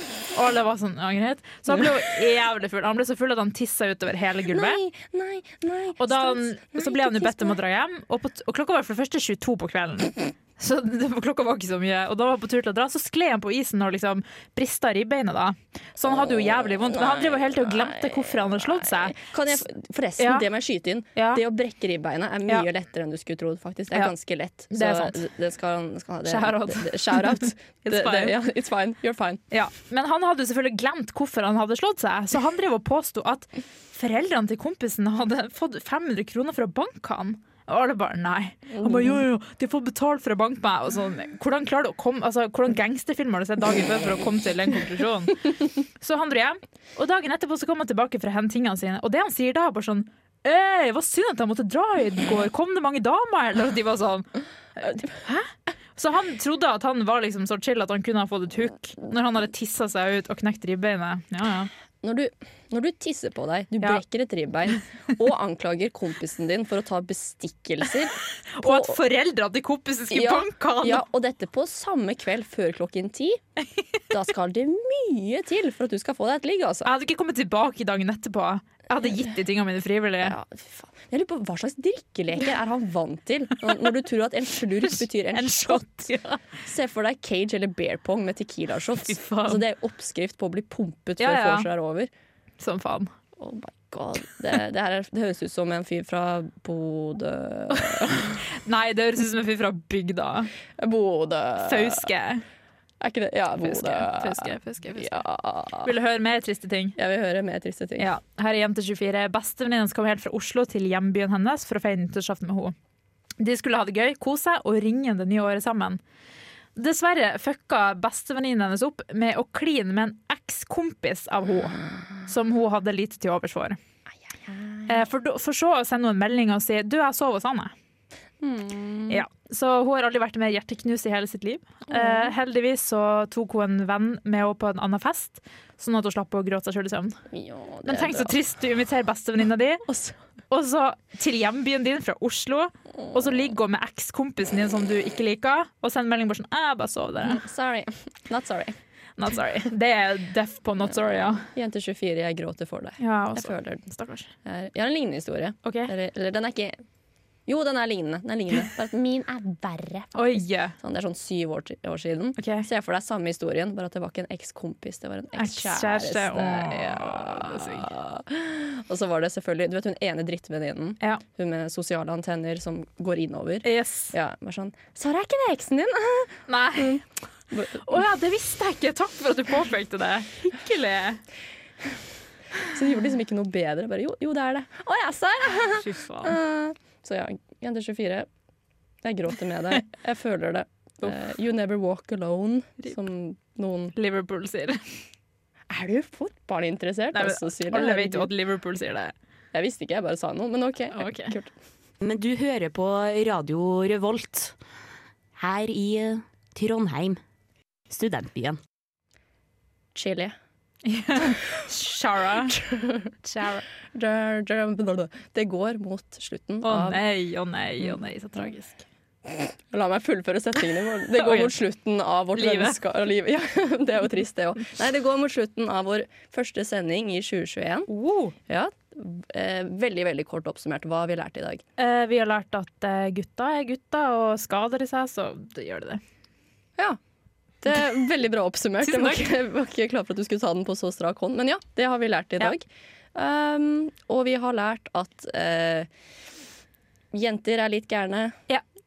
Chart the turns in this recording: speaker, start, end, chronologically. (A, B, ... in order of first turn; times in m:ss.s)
0:00.3-0:04.8 A
0:04.5-0:07.6 B
0:06.0-0:19.2 A
0:16.0-0:29.4 B
0:20.2-0:20.5 A
0:21.2-0:21.4 A
0:24.7-0:25.2 A
0:26.2-0:28.3 A
0:29.5-1:01.7 A
0:38.7-0:39.2 B
1:02.0-1:09.0 B
1:08.5-1:11.0 A
1:10.1-1:13.4 B
1:14.1-1:16.9 B
1:16.8-1:20.4 A
1:20.2-1:26.0 B
1:25.3-1:26.4 A
1:26.6-1:32.1 B
1:29.1-1:29.6 A
1:31.2-1:31.7 A
1:32.6-1:33.1 A
1:33.4-1:38.4 B
1:38.6-1:40.5 A
1:40.8-1:42.1 B
1:41.6-1:42.4 A
1:43.0-1:45.9 B
1:43.6-1:45.2 A
1:45.8-1:47.0 A
1:47.0-1:48.1 B
1:48.0-1:52.7 A
1:53.4-1:56.0 A
1:56.8-2:03.8 A
2:04.4-2:05.0 B
2:04.9-2:07.7 A
2:08.4-2:09.2 B
2:09.1-2:17.2 A
2:11.9-2:12.3 B
2:17.3-2:18.3 B
2:17.9-2:19.9 A
2:19.9-2:20.1 B
2:20.5-2:27.4 A
2:27.2-2:28.8 B
2:29.2-2:31.5 A
2:30.8-2:33.8 B
2:33.0-2:34.3 A
2:34.4-2:36.8 B
2:35.6-2:35.9 A
2:37.5-2:57.8 B
2:40.2-2:40.8 A
2:42.4-2:42.6 A
2:45.3-2:47.9 A
2:53.6-2:54.1 A
2:56.5-2:57.0 A
2:57.8-3:01.2 A
3:02.6-3:08.3 B
3:05.7-3:06.4 A
3:09.0-3:13.9 B
3:14.0-3:14.8 A
3:15.7-3:18.3 B
3:17.1-3:19.1 A
3:19.5-3:21.5 B
3:20.9-3:21.3 A
3:22.0-3:24.5 C
3:25.4-3:27.2 C
3:27.9-3:28.6 C
3:29.9-3:30.3 B
3:30.8-3:32.6 A
3:32.5-3:33.1 B
3:33.2-3:33.6 A
3:33.9-3:37.0 B
3:36.6-3:38.8 A
3:39.3-3:47.9 B
3:41.2-3:41.5 A
3:42.4-3:42.8 A
3:47.9-3:48.4 A
3:48.5-3:51.6 B
3:51.8-3:56.0 A
3:57.6-4:05.9 B
3:58.8-3:59.3 A
4:07.1-4:08.4 B